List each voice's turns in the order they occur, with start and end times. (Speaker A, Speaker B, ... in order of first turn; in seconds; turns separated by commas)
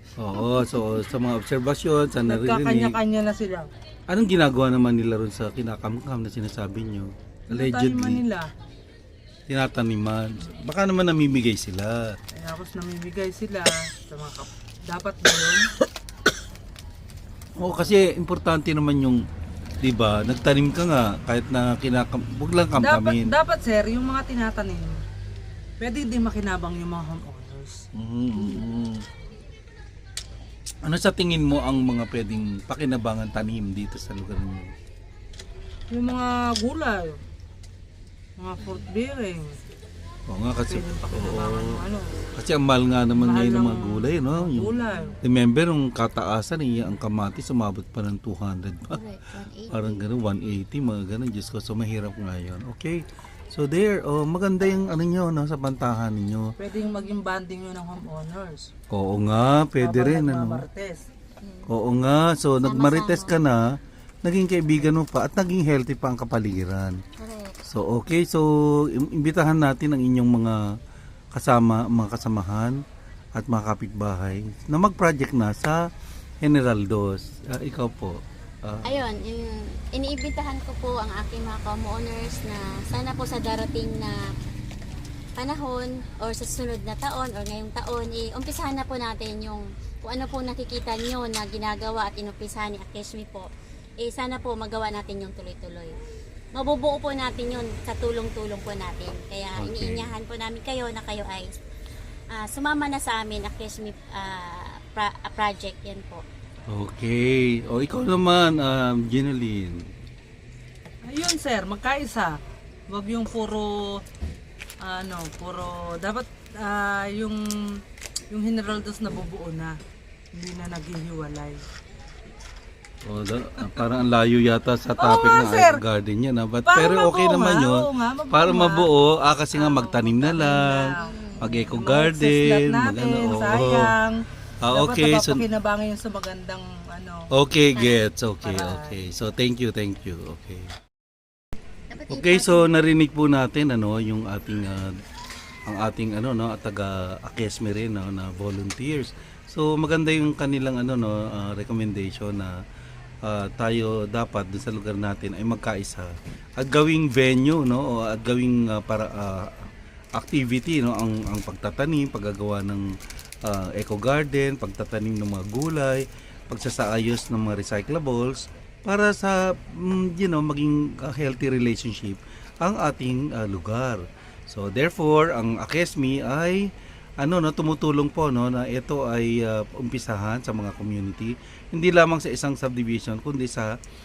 Speaker A: 0.2-3.0, Speaker B: 2.2-3.7, Speaker A: 4.1-8.2, Speaker B: 7.5-8.5, Speaker A: 9.5-12.2, Speaker B: 12.3-15.7, Speaker A: 17.6-19.2, Speaker A: 19.8-23.3, Speaker B: 22.8-25.0, Speaker B: 25.8-27.8, Speaker A: 27.9-29.0, Speaker A: 30.8-34.7, Speaker B: 35.9-37.2, Speaker B: 38.4-39.6, Speaker A: 40.3-41.8, Speaker B: 40.7-42.1, Speaker A: 42.3-49.0, Speaker B: 43.1-45.2, Speaker C: 48.9-50.1, Speaker A: 49.7-56.5, Speaker B: 56.6-58.7, Speaker C: 56.8-57.2, Speaker A: 58.9-60.6, Speaker B: 59.8-61.0, Speaker C: 61.4-61.7, Speaker A: 61.7-67.0, Speaker C: 62.6-63.4, Speaker C: 67.2-67.6, Speaker A: 67.7-70.7, Speaker A: 71.3-72.8, Speaker A: 73.3-75.8, Speaker A: 76.4-79.0, Speaker C: 78.8-84.2, Speaker C: 85.3-93.5, Speaker C: 94.0-95.9, Speaker C: 96.5-101.5, Speaker A: 99.6-100.1, Speaker C: 102.3-106.2, Speaker A: 106.7-109.9, Speaker B: 111.0-114.0, Speaker B: 114.8-117.8, Speaker B: 118.3-119.8, Speaker B: 120.3-121.6, Speaker A: 123.0-133.9, Speaker B: 123.6-123.9, Speaker B: 125.0-125.8, Speaker B: 126.7-128.9, Speaker B: 129.5-134.2, Speaker C: 130.9-131.5, Speaker A: 134.6-135.4, Speaker B: 134.7-137.3, Speaker A: 137.3-140.7, Speaker C: 137.7-138.0, Speaker B: 138.4-139.0, Speaker C: 141.9-142.7, Speaker A: 142.1-144.9, Speaker A: 145.7-152.5, Speaker A: 153.2-162.9, Speaker A: 163.4-183.7